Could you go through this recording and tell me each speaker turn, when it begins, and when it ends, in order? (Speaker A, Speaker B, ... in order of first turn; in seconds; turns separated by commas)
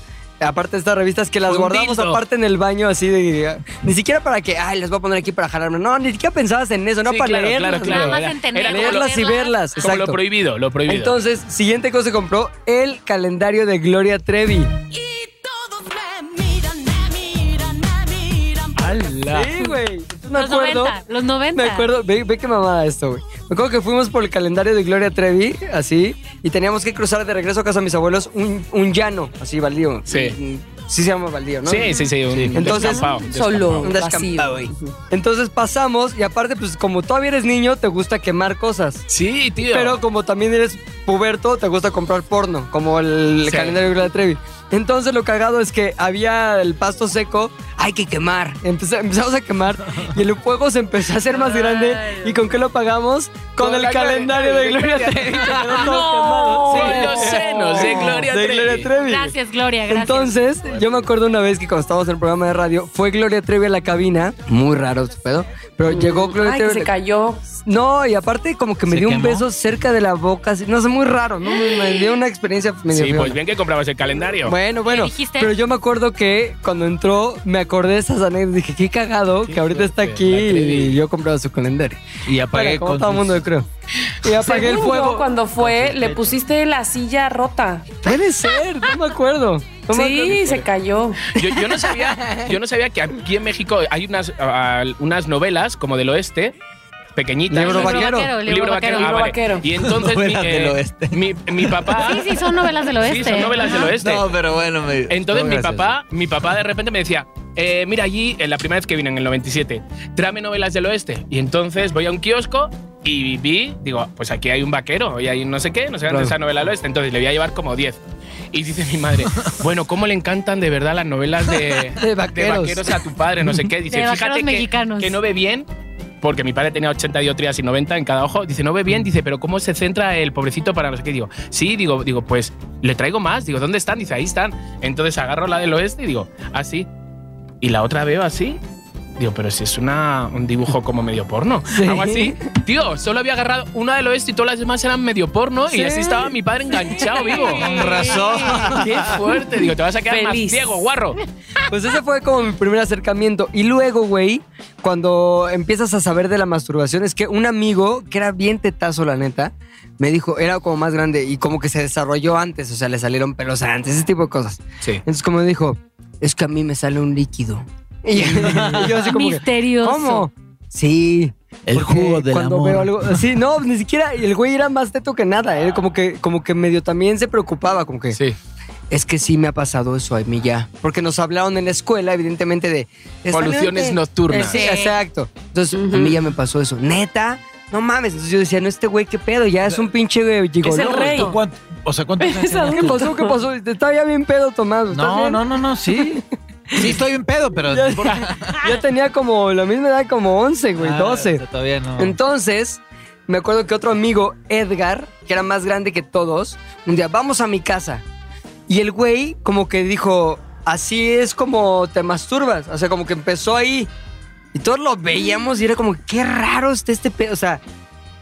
Speaker A: 0.4-10.2, Speaker B: 1.5-2.2, Speaker B: 7.0-9.2, Speaker C: 7.7-9.6, Speaker B: 9.8-11.2, Speaker A: 10.9-14.7, Speaker B: 18.8-19.5, Speaker A: 19.3-21.0, Speaker C: 20.3-21.9, Speaker A: 21.5-32.0, Speaker B: 30.1-30.4, Speaker B: 31.6-33.9, Speaker D: 32.3-32.8, Speaker A: 32.5-33.2, Speaker E: 32.7-34.9, Speaker A: 33.8-39.0, Speaker B: 39.1-40.0, Speaker A: 39.7-59.4, Speaker B: 43.4-43.8, Speaker C: 51.3-52.4, Speaker B: 53.6-56.1, Speaker C: 55.9-57.1, Speaker B: 56.6-58.9, Speaker E: 56.8-57.4, Speaker C: 59.0-60.4, Speaker A: 59.9-66.9, Speaker E: 65.9-67.5, Speaker A: 67.7-73.4, Speaker D: 68.9-69.5, Speaker B: 72.9-74.6, Speaker A: 74.5-83.7, Speaker C: 74.8-75.5, Speaker B: 79.5-81.0, Speaker D: 82.3-83.5, Speaker A: 84.2-85.3, Speaker E: 84.4-87.9, Speaker D: 85.6-86.4, Speaker A: 88.0-90.7, Speaker E: 89.9-91.3, Speaker B: 91.3-96.5, Speaker A: 91.4-92.5, Speaker B: 97.2-102.3, Speaker A: 97.5-98.3, Speaker C: 97.6-99.2, Speaker E: 98.9-99.7, Speaker D: 99.8-102.0, Speaker C: 102.0-103.9, Speaker B: 103.0-104.3, Speaker D: 103.7-106.0, Speaker B: 105.1-118.0, Speaker A: 116.1-116.4, Speaker B: 118.5-125.7, Speaker A: 122.0-123.0, Speaker C: 123.9-125.2, Speaker B: 126.2-136.9, Speaker B: 137.6-138.6, Speaker B: 139.2-151.2, Speaker A: 141.7-142.4, Speaker A: 145.7-146.3, Speaker C: 147.1-148.6, Speaker D: 147.6-149.2, Speaker E: 150.1-150.8, Speaker A: 151.7-178.2, Speaker D: 168.2-169.1, Speaker C: 169.0-170.3, Speaker D: 171.7-173.3, Speaker A: 178.9-191.3, Speaker B: 183.3-184.7, Speaker C: 184.5-185.0, Speaker E: 185.7-186.2, Speaker E: 190.6-191.4, Speaker D: 190.7-193.2, Speaker E: 192.2-193.4, Speaker A: 192.7-197.0, Speaker D: 194.9-196.2, Speaker D: 196.8-198.7, Speaker A: 197.7-201.4, Speaker D: 200.8-202.2, Speaker A: 202.0-208.0, Speaker A: 208.7-213.9, Speaker A: 214.5-217.6